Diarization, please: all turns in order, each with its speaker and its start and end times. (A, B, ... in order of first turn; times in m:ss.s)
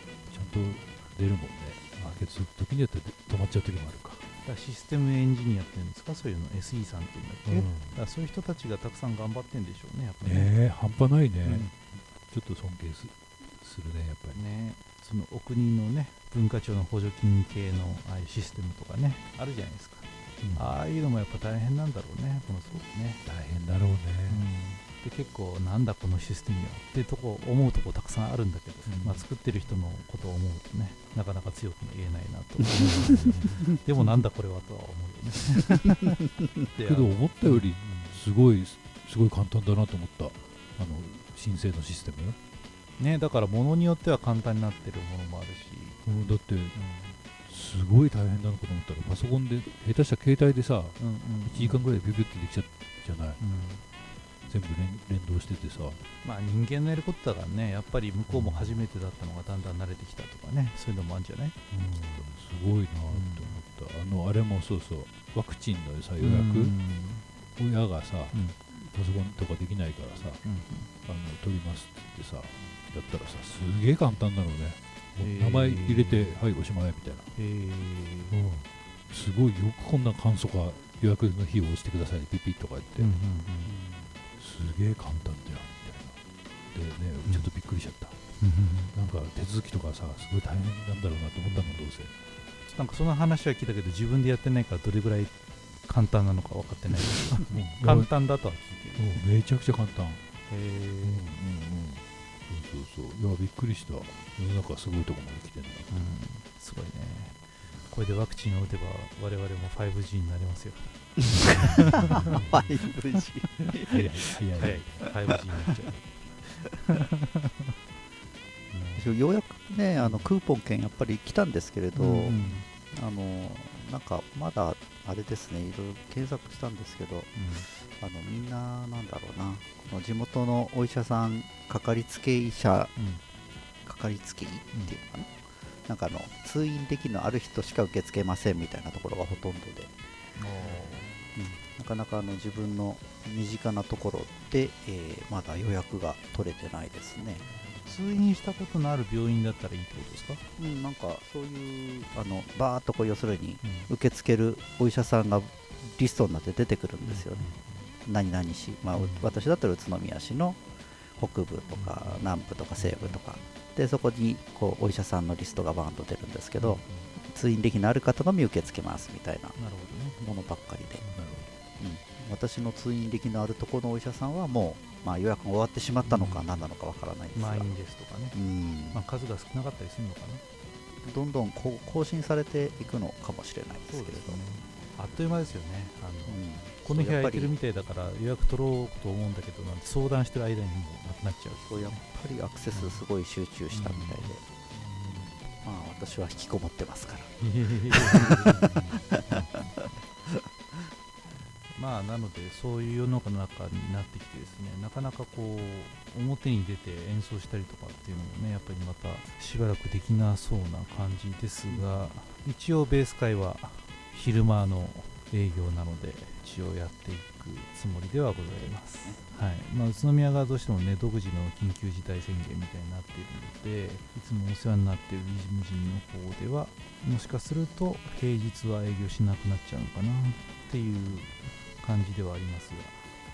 0:00.3-0:04.2 A
0:04.4-0:10.5 B
0:07.4-0:08.0 A
0:10.2-0:14.4 A
0:11.4-0:11.7 B
0:14.3-0:23.2 B
0:20.4-0:20.8 A
0:23.2-0:24.5 A
0:24.3-0:38.2 B
0:28.8-0:29.2 A
0:36.8-0:42.4 A
0:43.0-0:46.0 B
0:46.0-0:46.8 A
0:46.7-0:47.2 B
0:47.4-0:53.4 A
0:51.0-0:51.8 B
0:53.4-0:53.8 B
0:54.5-0:56.0 A
0:56.2-1:02.3 B
0:58.3-0:58.8 A
1:01.7-1:06.7 A
1:03.1-1:03.6 B
1:06.2-1:07.2 B
1:07.6-1:10.4 A
1:10.4-1:10.9 B
1:11.0-1:17.3 A
1:15.2-1:16.4 B
1:17.4-1:18.4 B
1:18.3-1:23.1 A
1:23.0-1:23.8 B
1:23.8-1:24.1 C
1:24.3-1:26.2 A
1:26.7-1:28.1 A
1:28.4-1:28.9 B
1:28.9-1:32.1 A
1:31.4-1:31.8 B
1:32.7-1:35.3 B
1:35.8-1:39.2 B
1:37.4-1:38.1 A
1:39.0-1:40.2 A
1:40.5-1:41.3 B
1:41.0-1:45.9 A
1:45.9-1:52.4 B
1:51.8-1:54.0 C
1:51.9-1:52.7 A
1:53.8-1:55.0 A
1:54.6-1:57.5 B
1:58.7-1:59.1 B
1:59.0-2:12.9 C
2:00.0-2:00.3 B
2:02.0-2:02.7 B
2:07.3-2:07.7 B
2:13.0-2:13.2 B
2:13.8-2:19.9 C
2:20.4-2:21.1 B
2:21.3-2:27.5 C
2:27.8-2:30.4 B
2:30.6-2:37.5 C
2:33.6-2:33.9 B
2:37.0-2:37.8 B
2:38.0-2:40.6 C
2:39.0-2:39.3 B
2:41.2-2:49.6 C
2:41.7-2:43.2 B
2:46.6-2:47.1 A
2:49.6-2:50.2 B
2:50.2-2:51.0 C
2:51.1-2:51.5 A
2:51.8-2:57.7 C
2:56.0-2:56.5 B
2:57.3-2:58.4 B
2:58.3-2:59.0 C
2:58.9-3:00.4 B
3:01.0-3:04.4 C
3:03.9-3:12.0 B
3:06.3-3:07.5 C
3:11.6-3:14.4 C
3:12.7-3:13.0 B
3:13.7-3:14.3 B
3:15.6-3:18.5 C
3:17.4-3:19.8 B
3:19.1-3:19.4 C
3:21.7-3:53.0 B
3:38.5-3:39.2 C